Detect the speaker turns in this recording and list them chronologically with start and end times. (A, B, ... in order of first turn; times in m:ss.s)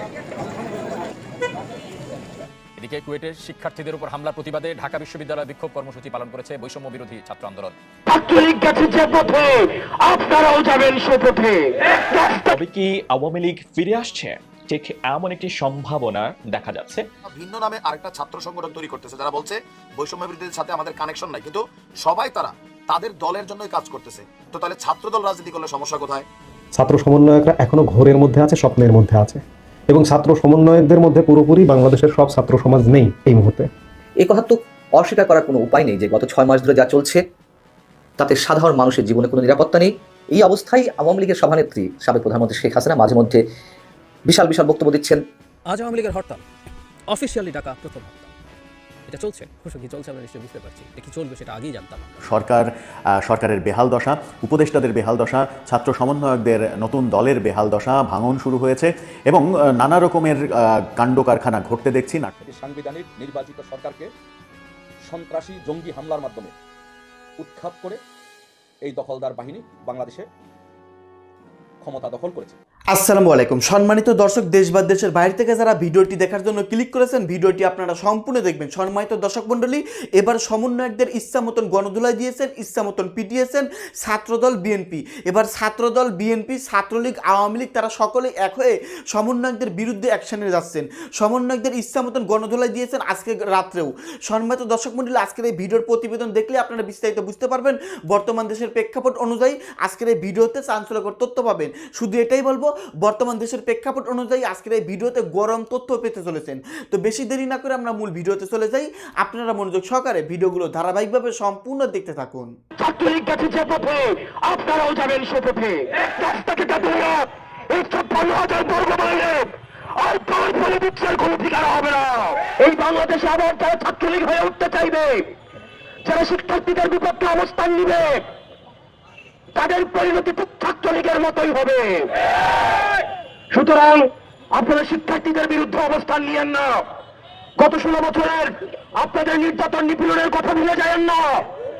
0:02.8-0:07.7 A
0:08.0-0:12.5 B
0:12.4-0:17.0 C
0:17.3-0:26.2 D
0:26.8-0:29.4 E
0:30.0-0:33.7 E
0:30.0-0:30.9 F
0:34.2-0:37.2 G
0:38.2-0:43.4 G
0:44.2-0:45.2 G
0:45.6-0:46.4 F
0:47.1-0:48.3 F
0:49.1-0:52.2 F
0:52.2-0:52.7 H
0:53.2-1:02.3 H
1:02.5-1:04.1 I
1:05.1-1:06.5 I
1:07.4-1:08.0 I
1:08.9-1:10.2 I
1:11.8-1:12.5 I
1:12.9-1:52.5 J
1:52.8-2:05.3 B
2:06.0-2:08.2 B
2:09.5-2:12.2 B
2:13.5-2:16.8 B
2:17.6-2:21.5 B